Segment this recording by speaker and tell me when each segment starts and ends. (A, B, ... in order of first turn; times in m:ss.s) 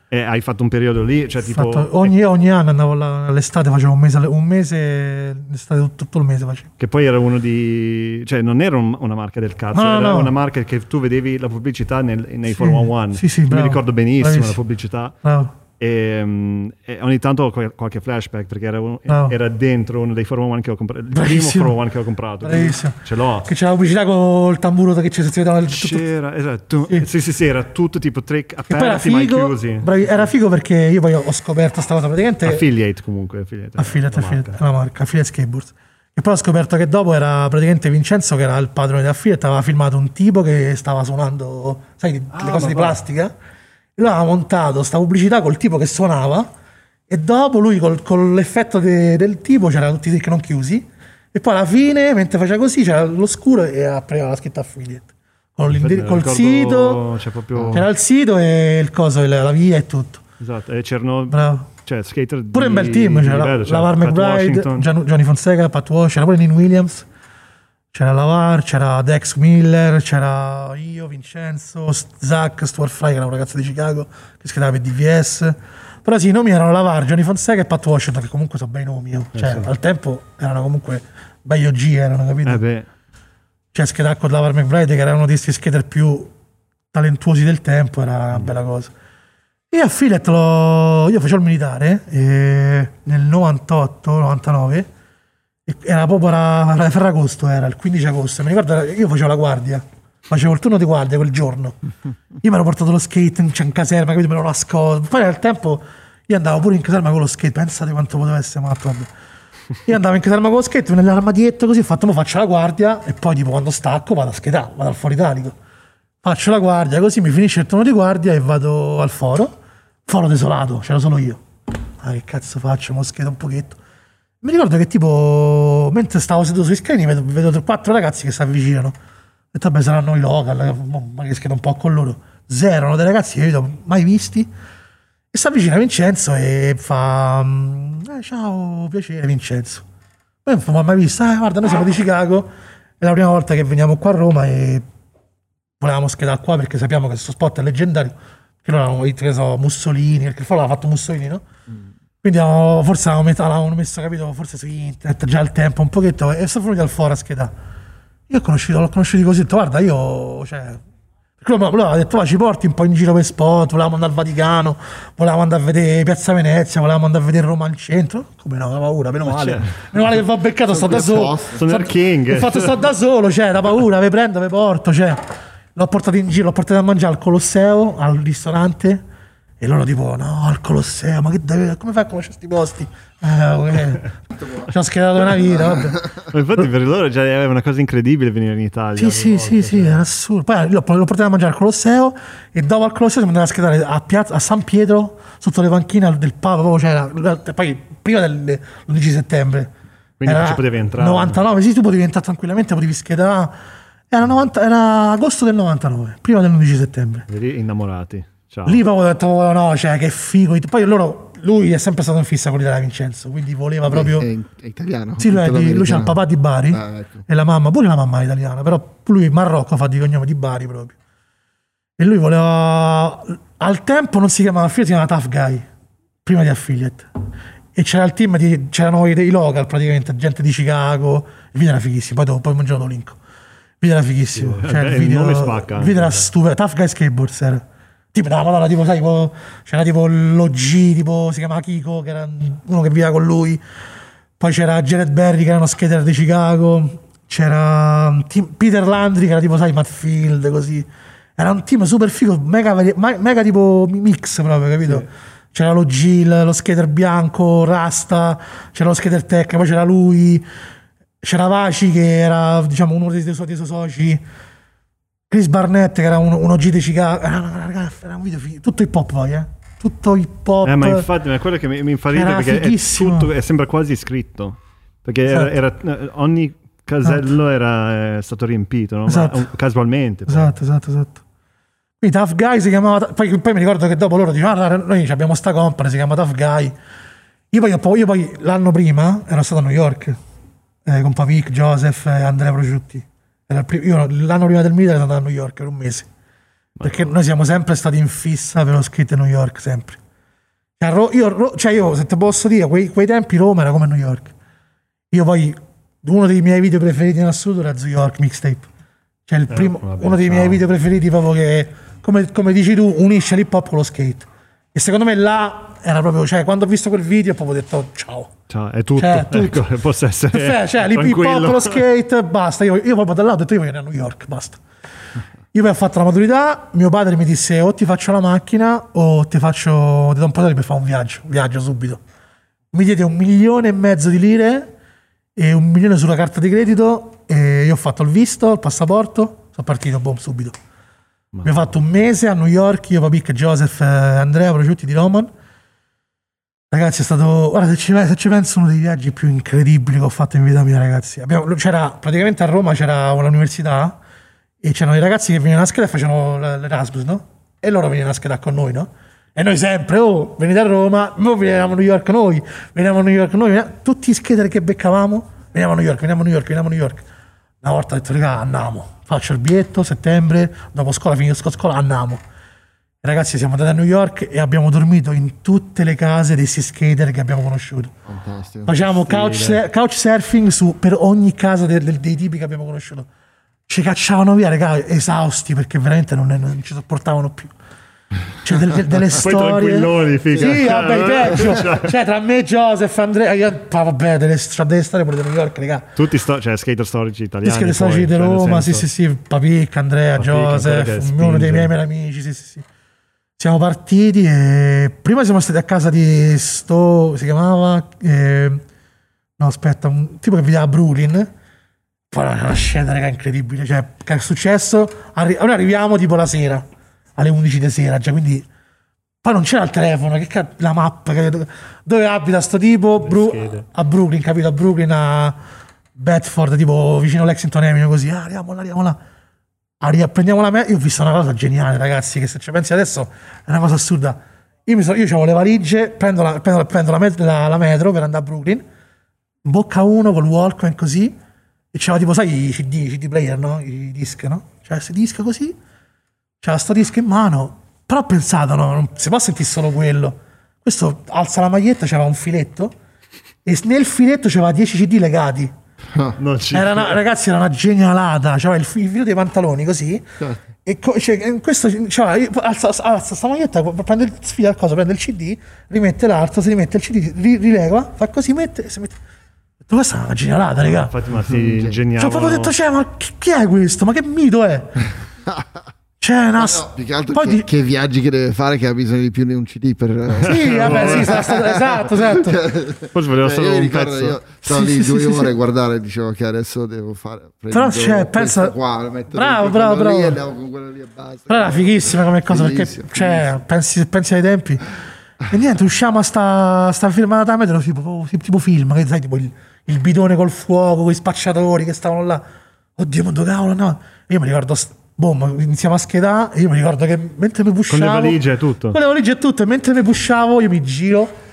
0:00.1-0:02.1 A
0:01.4-0:06.7 B
0:06.8-0:15.2 A
0:09.7-0:10.3 B
0:12.5-0:14.6 B
0:15.2-0:15.5 B
0:15.8-0:23.5 A
0:19.1-0:19.4 B
0:21.1-0:21.8 B
0:22.4-0:26.1 B
0:25.7-0:30.3 A
0:28.7-0:32.6 B
0:32.4-0:34.6 A
0:33.8-0:43.3 B
0:42.3-0:43.0 A
0:44.0-0:46.5 B
0:47.1-0:57.0 B
0:55.7-0:57.8 A
0:57.6-0:57.8 C
0:57.7-1:00.2 B
1:00.4-1:04.9 A
1:01.3-1:01.7 B
1:02.5-1:07.1 B
1:07.9-1:22.6 B
1:19.3-1:19.7 A
1:22.4-1:22.9 A
1:23.7-1:26.3 B
1:26.9-1:28.9 B
1:29.7-1:34.9 B
1:35.6-1:41.8 B
1:42.4-1:49.1 B
1:49.8-1:55.5 B
1:56.2-1:59.5 B
2:00.0-2:01.4 B
2:02.0-2:03.8 B
2:04.4-2:09.0 B
2:09.5-2:14.5 B
2:15.3-2:19.8 B
2:20.4-2:22.5 B
2:23.0-2:24.8 B
2:25.8-2:31.4 B
2:32.2-2:37.5 B
2:38.3-2:40.8 B
2:41.4-2:55.2 B
2:49.2-2:49.8 A
2:50.7-2:51.6 C
2:51.5-2:52.8 A
2:55.7-2:59.0 B
2:59.6-3:04.1 B
3:04.4-3:04.7 C
3:04.6-3:06.0 B
3:05.3-3:06.2 C
3:06.3-3:10.0 A
3:09.0-3:19.7 B
3:20.2-3:21.4 A
3:20.2-3:23.6 B
3:24.1-3:27.3 B
3:27.3-3:28.8 A
3:28.6-3:34.3 B
3:33.8-3:36.2 C
3:35.2-3:41.0 B
3:36.7-3:37.2 C
3:42.0-3:45.6 B
3:46.2-3:47.0 B
3:47.7-3:53.2 B
3:53.8-4:03.6 B
3:54.3-3:56.3 A
4:04.4-4:20.4 B
4:21.2-4:24.2 B
4:25.3-4:31.1 B
4:30.6-4:40.6 A
4:32.1-4:33.3 B
4:39.1-4:39.4 B
4:40.3-4:41.2 B
4:42.0-4:46.8 B
4:47.5-4:50.2 B
4:50.8-4:56.1 B
4:56.8-4:57.1 A
4:56.8-5:00.0 B
5:00.8-5:04.3 B
5:05.1-5:08.7 B
5:09.3-5:18.3 B
5:09.5-5:10.6 A
5:18.5-5:21.8 A
5:19.0-5:19.6 B
5:20.3-5:24.6 B
5:25.5-5:32.0 B
5:32.7-5:34.7 B
5:35.4-5:40.6 B
5:41.3-5:41.6 A
5:41.4-5:45.3 B
5:46.7-5:54.0 B
5:54.6-6:07.0 B
6:07.6-6:12.2 B
6:13.0-6:17.9 B
6:18.1-6:19.0 C
6:18.7-6:23.1 B
6:19.0-6:19.6 A
6:23.7-6:27.5 B
6:28.4-6:35.9 B
6:29.2-6:31.9 A
6:30.3-6:31.5 C
6:36.0-6:38.8 A
6:37.4-6:42.6 B
6:40.2-6:41.7 A
6:43.4-6:48.6 B
6:49.4-6:51.3 B
6:52.1-6:56.6 B
6:57.2-6:58.5 B
6:59.2-7:05.4 B
7:03.0-7:03.7 A
7:06.0-7:09.0 B
7:09.8-7:18.6 B
7:19.4-7:21.1 B
7:21.7-7:25.6 B
7:26.4-7:32.7 B
7:33.4-7:35.5 B
7:35.9-7:36.2 C
7:36.2-7:37.0 A
7:36.5-7:40.0 B
7:40.6-7:49.0 B
7:49.6-7:50.9 B
7:50.8-7:52.6 A
7:51.3-7:51.8 C
7:52.0-7:54.8 B
7:56.0-7:57.5 B
7:56.4-8:13.3 C
8:00.2-8:02.4 B
8:00.2-8:01.2 A
8:02.9-8:04.2 A
8:04.4-8:05.3 B
8:07.5-8:08.5 B
8:09.1-8:10.2 B
8:11.3-8:14.6 B
8:15.3-8:22.2 B
8:22.8-8:28.2 B
8:27.7-8:28.8 A
8:28.7-8:31.1 B